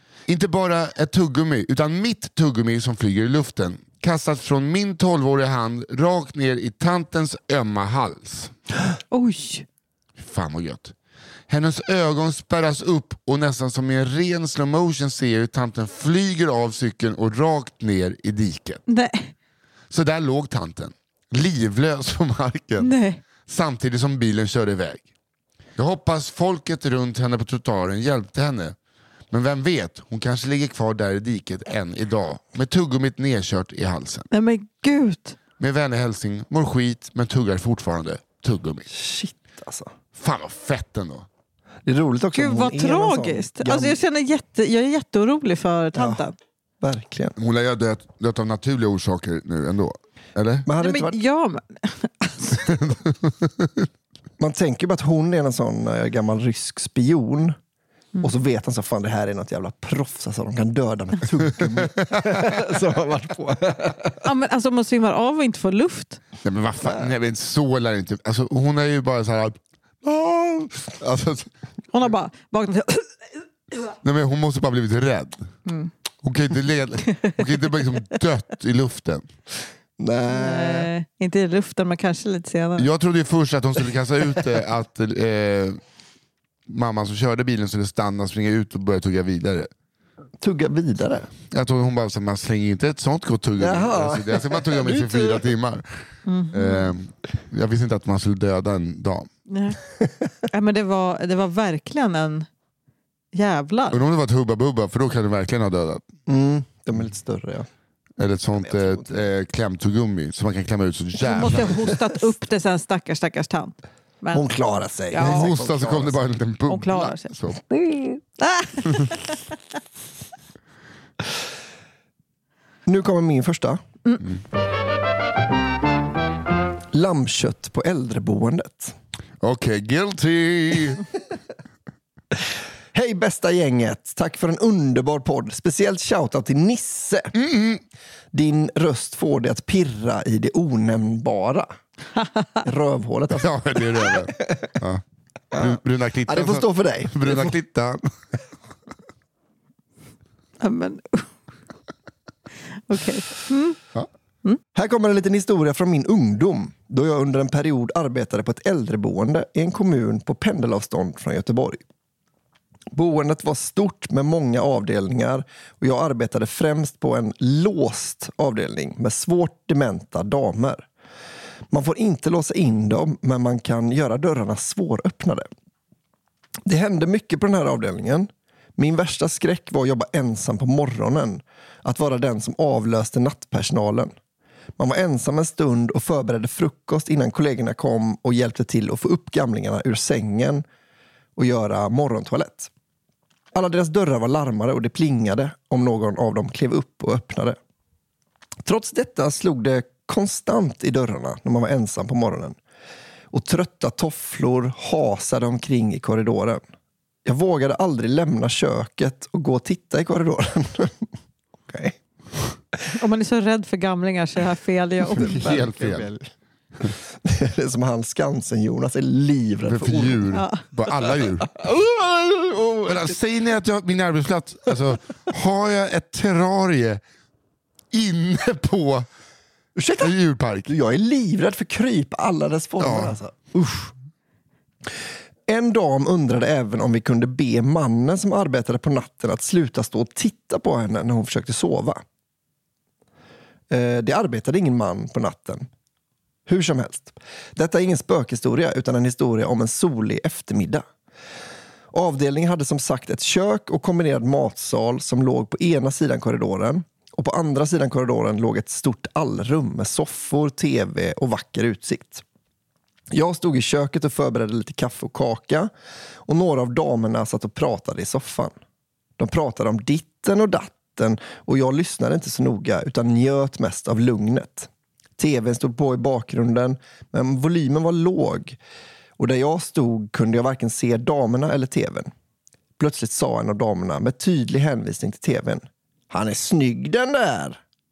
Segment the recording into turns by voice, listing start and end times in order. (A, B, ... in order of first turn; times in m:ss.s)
0:00.3-0:08.5 A
0:09.1-0:09.7 B
0:10.2-0:10.9 A
0:11.5-0:18.8 A
0:18.9-0:19.3 B
0:19.9-0:25.0 A
0:22.8-0:23.2 B
0:25.8-0:28.8 A
0:29.3-0:34.3 A
0:34.3-0:35.4 B
0:35.6-0:38.9 A
0:38.9-0:39.9 C
0:40.1-0:41.3 A
0:41.8-0:44.0 C
0:42.3-0:46.4 B
0:46.0-0:46.2 C
0:46.8-0:47.4 C
0:47.4-0:50.7 A
0:50.6-0:51.2 C
0:50.8-0:52.8 B
0:52.5-0:53.9 A
0:54.4-0:57.6 C
0:58.2-1:04.3 C
1:01.5-1:02.6 A
1:04.2-1:06.2 B
1:06.4-1:11.5 A
1:06.8-1:07.1 C
1:11.9-1:13.2 B
1:14.0-1:15.4 A
1:15.7-1:15.9 B
1:16.2-1:19.3 A
1:17.1-1:17.4 B
1:20.0-1:20.9 C
1:20.3-1:22.9 B
1:22.8-1:25.8 A
1:26.7-1:29.7 A
1:30.4-1:31.3 C
1:31.5-1:39.3 A
1:33.6-1:35.5 C
1:36.3-1:36.8 B
1:39.5-1:39.8 B
1:40.5-1:42.5 B
1:43.3-1:44.0 B
1:43.9-1:46.0 A
1:46.3-1:47.7 C
1:48.2-1:51.8 A
1:48.6-1:49.2 C
1:51.2-1:54.5 B
1:54.3-1:56.2 C
1:55.1-1:55.5 B
1:55.2-1:57.6 A
1:56.7-1:59.6 B
2:02.9-2:03.8 C
2:06.9-2:09.0 C
2:09.4-2:11.1 A
2:12.9-2:17.3 C
2:17.4-2:17.8 A
2:18.3-2:21.7 C
2:22.2-2:22.6 B
2:22.6-2:24.7 C
2:23.3-2:25.0 A
2:25.5-2:27.6 C
2:25.5-2:28.1 A
2:30.6-2:31.3 B
2:32.9-2:33.8 B
2:34.8-2:41.8 C
2:42.9-2:50.9 C
2:51.7-2:55.5 C
2:56.7-3:04.1 C
3:04.8-3:10.6 C
3:11.4-3:12.7 C
3:13.5-3:17.6 C
3:18.6-3:22.6 C
3:23.3-3:26.6 C
3:27.2-3:31.1 C
3:31.7-3:32.0 C
3:32.9-3:35.5 B
3:35.2-3:40.2 C
3:35.2-3:36.1 A
3:39.7-3:41.5 A
3:40.3-3:40.6 B
3:40.9-3:43.2 C
3:42.9-3:47.0 A
3:47.9-3:49.1 A
3:49.8-3:50.1 C
3:50.0-3:50.7 A
3:50.7-3:53.9 C
3:52.8-3:53.2 A
3:55.5-4:02.0 C
4:03.7-4:05.7 C
4:06.5-4:10.8 C
4:11.9-4:22.2 C
4:23.1-4:25.7 C
4:26.3-4:28.5 C
4:29.2-4:38.6 C
4:39.2-4:42.1 C
4:42.8-4:47.6 C